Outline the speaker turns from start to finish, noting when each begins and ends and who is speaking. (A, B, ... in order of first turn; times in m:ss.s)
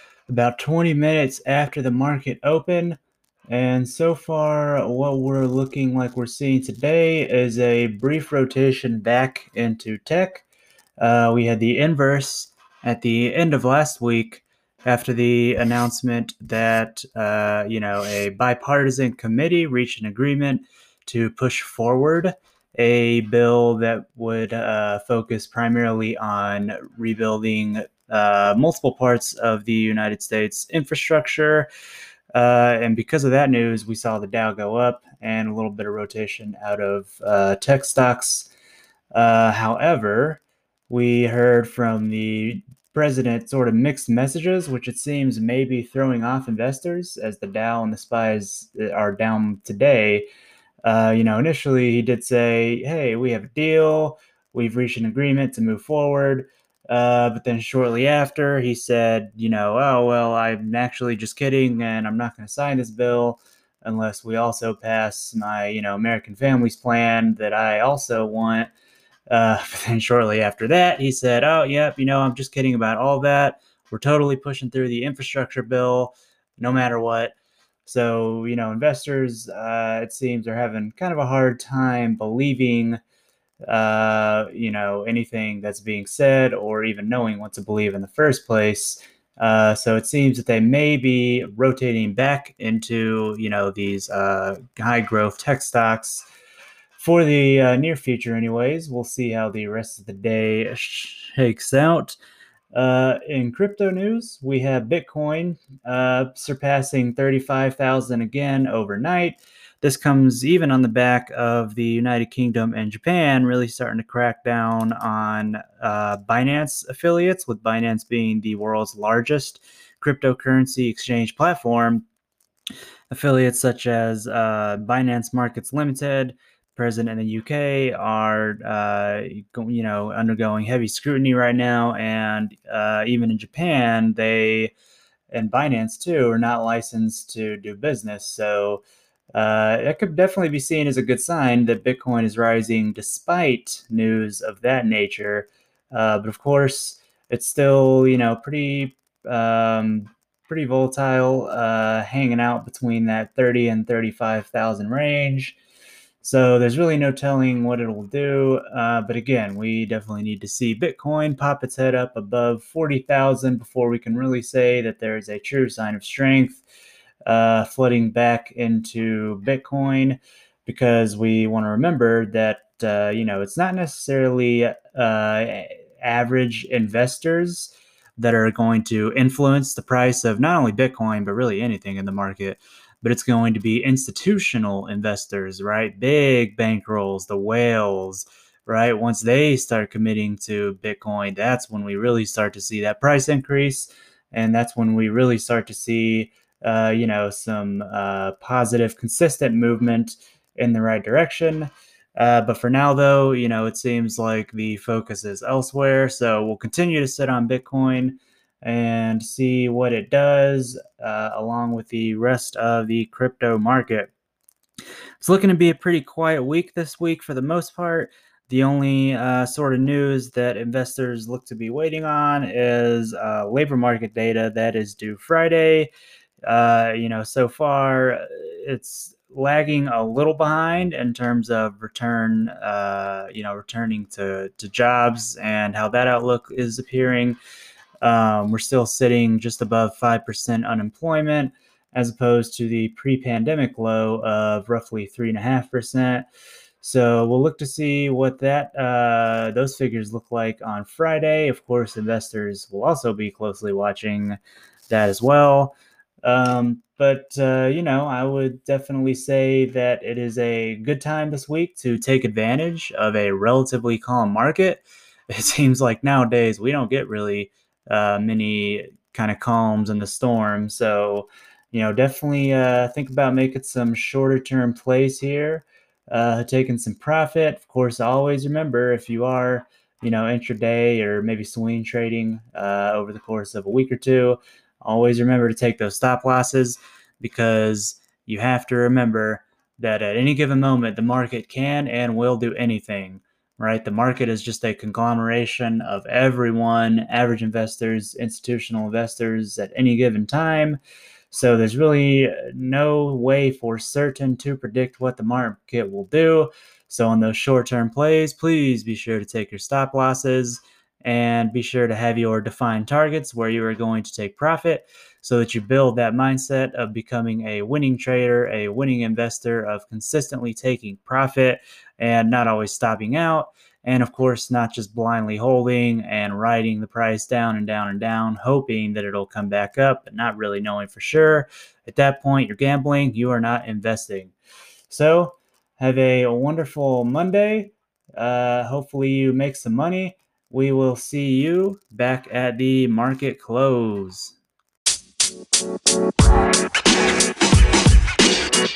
0:00.3-0:10.4 A
0:11.0-0:31.7 A
0:32.3-0:38.5 A
0:39.1-0:50.3 A
0:50.8-1:08.7 A
1:09.3-1:17.4 A
1:17.9-1:23.0 A
1:23.7-1:36.3 A
1:37.0-1:42.2 A
1:42.7-2:02.0 A
2:03.1-2:14.7 A
2:15.3-2:18.8 A
2:19.3-2:35.6 A
2:36.2-2:46.6 A
2:47.2-3:34.1 A
3:35.2-3:45.9 A
3:46.4-3:57.4 A
3:58.0-4:06.3 A
4:06.8-4:14.4 A
4:14.9-5:00.8 A
5:01.3-5:34.4 A
5:34.9-5:44.4 A